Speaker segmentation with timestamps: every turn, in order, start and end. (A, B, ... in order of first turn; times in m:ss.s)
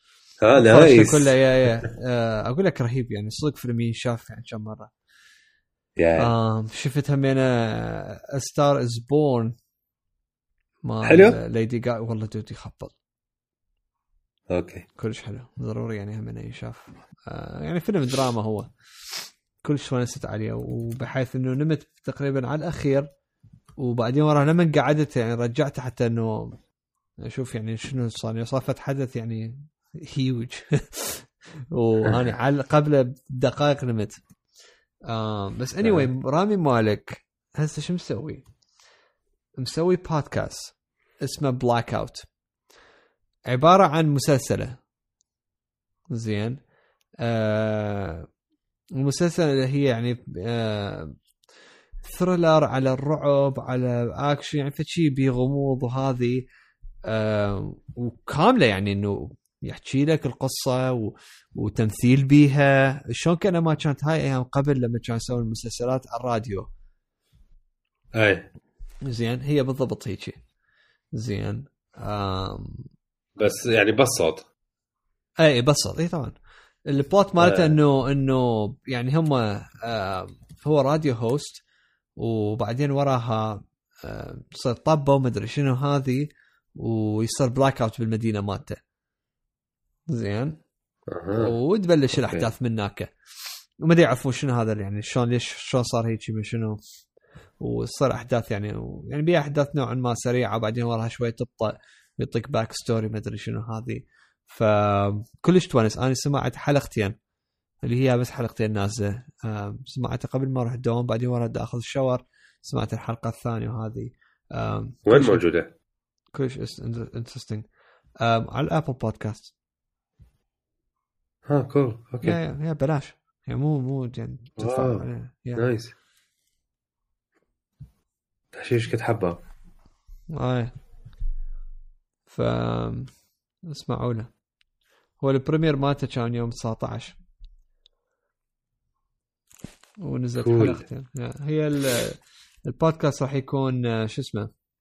0:00.4-0:01.4 A
0:00.6-0:04.9 B
0:06.0-0:06.3 A
0:06.2-0:09.5 B
0:10.8-0:12.9 B
0:11.0-0:11.4 A
0:14.5-0:14.9 A
0:15.0-0:23.1 B
0:23.8-0:26.6 B
0:27.2-0:34.2 B
0:35.1-0:38.4 B
0:35.8-0:36.1 A
0:39.6-0:42.3 B
0:43.5-0:44.8 B
0:46.1-0:46.6 B
0:47.2-0:48.3 B
0:49.0-0:51.2 B
0:52.0-0:56.4 B
0:57.1-1:06.7 B
1:08.2-1:08.5 A
1:09.1-1:10.4 B
1:11.2-1:12.9 B
1:13.4-1:14.5 A
1:15.4-1:16.4 B
1:16.9-1:21.6 B
1:17.4-1:17.8 A
1:22.2-1:28.8 B
1:30.1-1:30.6 B
1:31.1-1:31.6 A
1:31.3-1:33.1 B
1:33.8-1:36.8 B
1:37.6-1:47.2 B
1:47.8-1:55.4 B
1:55.1-1:55.7 A
1:56.3-1:57.6 B
1:58.2-1:59.5 B
2:01.5-2:02.4 A
2:02.2-2:05.6 B
2:04.6-2:05.1 A
2:05.6-2:05.9 A
2:08.5-2:09.4 A
2:10.3-2:10.7 B
2:12.3-2:13.1 B
2:13.7-2:14.3 B
2:15.2-2:17.2 B
2:20.0-2:24.5 B
2:20.4-2:20.8 A